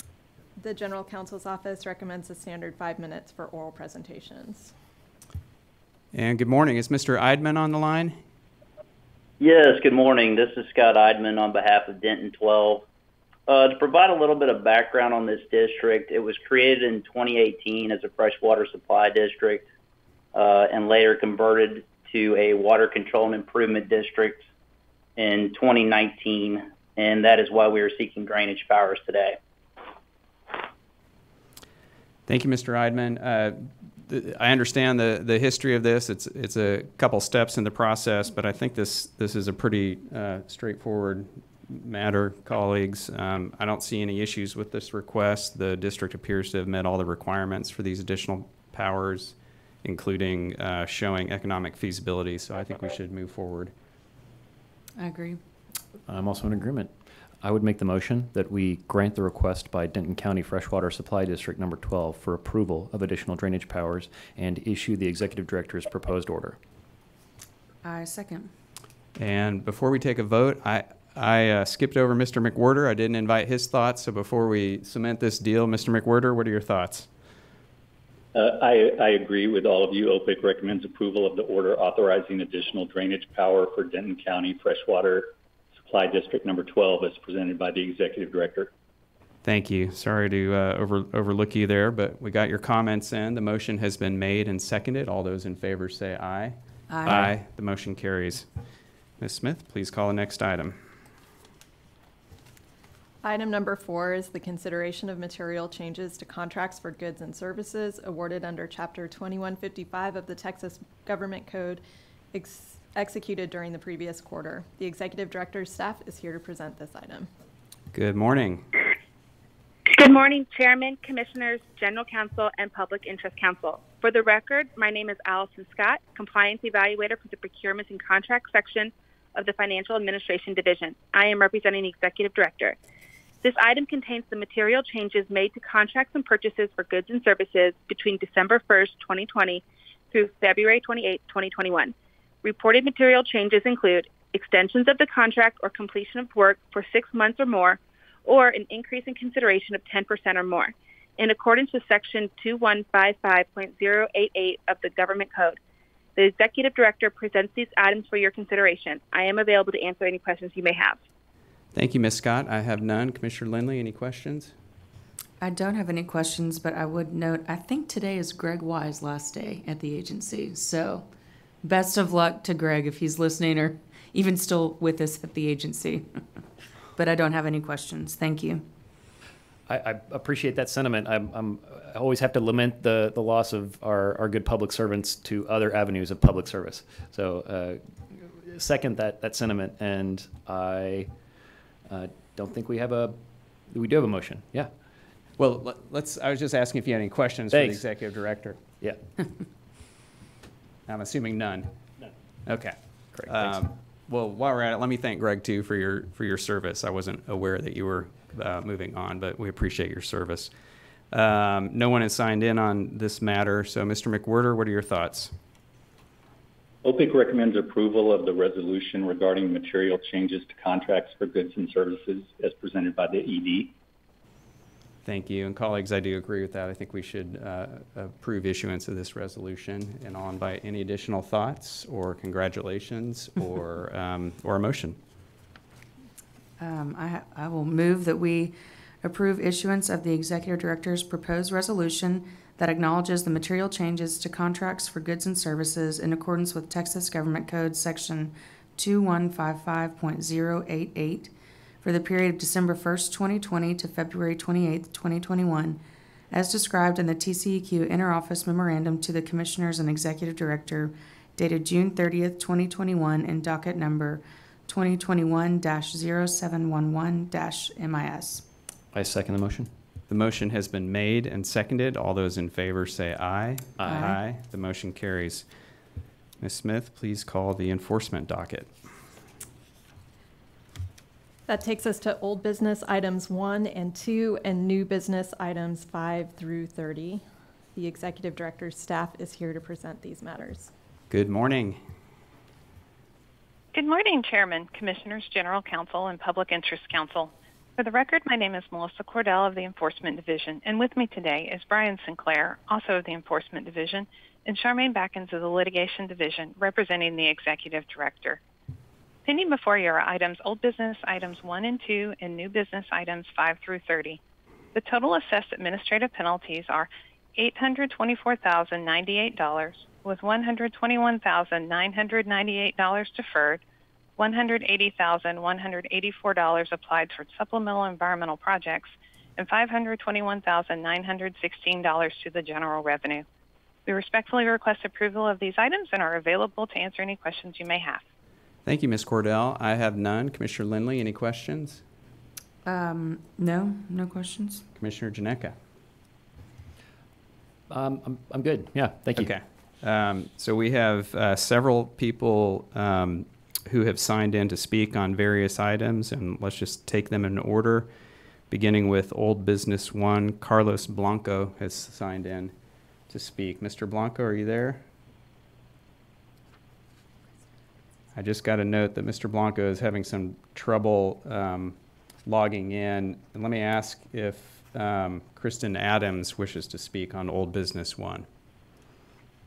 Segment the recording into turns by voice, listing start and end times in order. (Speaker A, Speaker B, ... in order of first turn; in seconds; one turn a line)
Speaker A: 0.6-4.7
Speaker B: 6.1-8.2
Speaker C: 9.4-12.9
Speaker C: 13.5-19.7
Speaker C: 20.3-24.5
Speaker C: 25.2-29.4
Speaker B: 32.3-53.7
Speaker D: 55.0-55.4
Speaker E: 56.1-66.6
Speaker D: 67.8-68.5
Speaker B: 69.2-77.1
Speaker F: 78.3-88.7
Speaker B: 89.4-98.5
Speaker D: 96.9-97.3
Speaker B: 99.2-100.8
Speaker A: 103.2-111.8
Speaker A: 112.3-117.3
Speaker B: 117.9-118.7
Speaker G: 119.9-132.8
Speaker G: 133.4-155.6
Speaker G: 156.2-161.0
Speaker B: 161.7-164.6
Speaker D: 165.4-171.1
Speaker D: 171.6-176.1
Speaker D: 176.9-178.7
Speaker E: 179.7-191.1
Speaker E: 191.9-194.7
Speaker B: 195.4-198.6
Speaker E: 197.5-197.9
Speaker B: 200.9-201.7
Speaker B: 202.5-210.5
Speaker E: 203.1-203.6
Speaker B: 211.1-215.3
Speaker F: 216.8-223.7
Speaker B: 225.1-235.0
Speaker D: 236.6-255.8
Speaker D: 256.3-268.4
Speaker E: 268.9-269.7
Speaker B: 270.1-275.5
Speaker E: 273.8-274.1
Speaker D: 273.9-274.2
Speaker B: 276.4-278.8
Speaker A: 281.5-287.2
Speaker A: 287.8-290.7
Speaker B: 291.1-291.8
Speaker H: 293.7-308.4
Speaker H: 309.3-314.2
Speaker H: 314.7-323.6
Speaker H: 324.2-333.2
Speaker H: 333.9-338.1
Speaker B: 338.6-341.8
Speaker D: 342.6-344.7
Speaker B: 344.8-345.6
Speaker E: 347.7-349.3
Speaker B: 349.1-357.9
Speaker B: 358.5-362.5
Speaker B: 363.1-364.8
Speaker B: 368.1-378.3